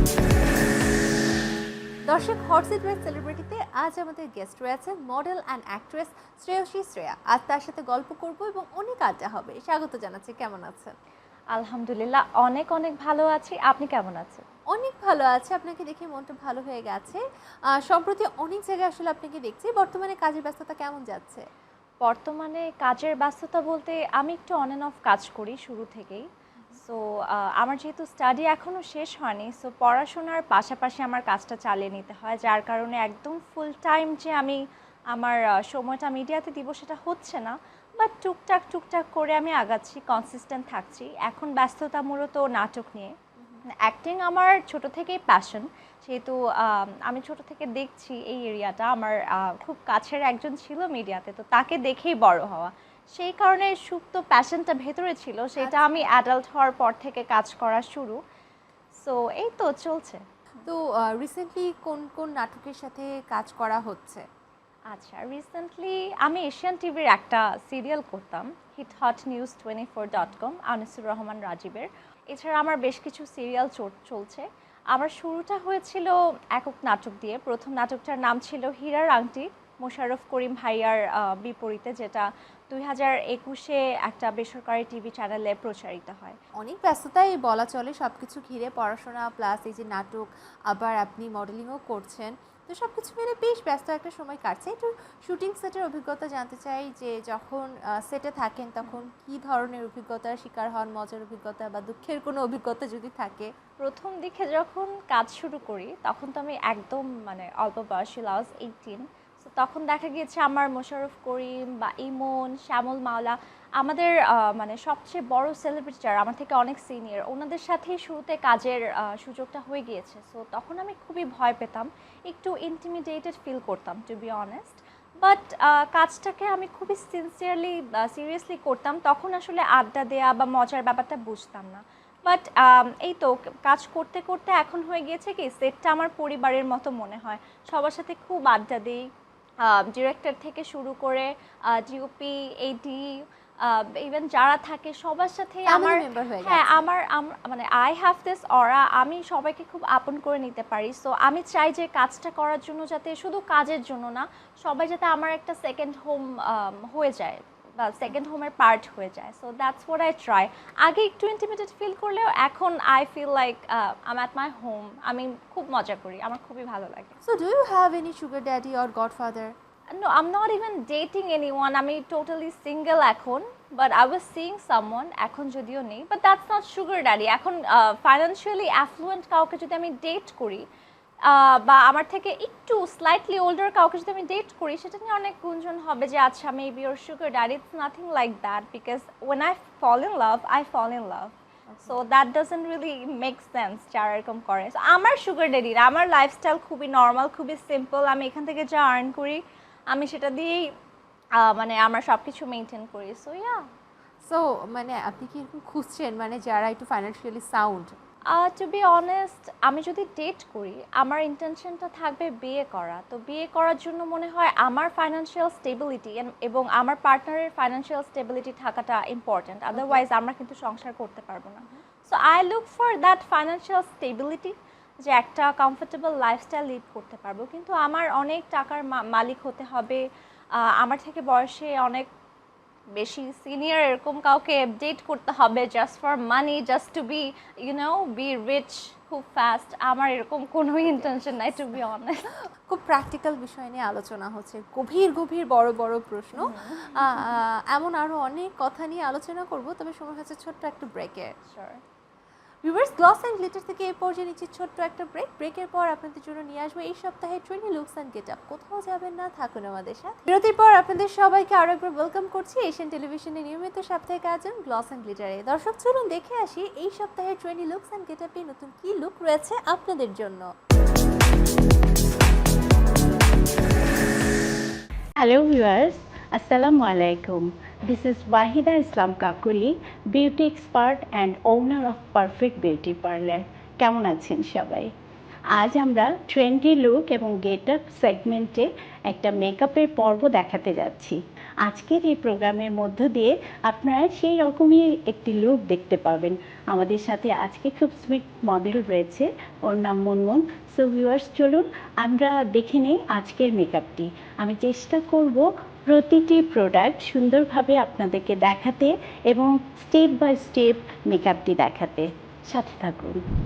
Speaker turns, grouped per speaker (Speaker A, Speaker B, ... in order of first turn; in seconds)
Speaker A: 2.1-10.9, 14.7-17.2, 17.8-21.4, 55.6-56.1, 60.6-64.2, 86.6-103.5, 145.7-146.8, 167.2-169.5, 191.7-192.0, 204.2-207.9, 219.7-220.0, 240.8-241.7, 242.7-251.3, 252.6-270.5
Speaker B: 11.5-14.4, 22.0-34.6, 35.1-43.1, 43.7-58.2, 58.9-60.7, 64.9-86.4, 103.8-139.1, 139.6-167.2, 169.9-180.6, 181.2-191.3, 191.8-200.7, 201.3-203.7, 208.3-230.0, 230.5-232.1, 232.9-242.4, 246.3-247.4, 251.4-251.8
Speaker C: 275.2-284.9, 285.5-313.2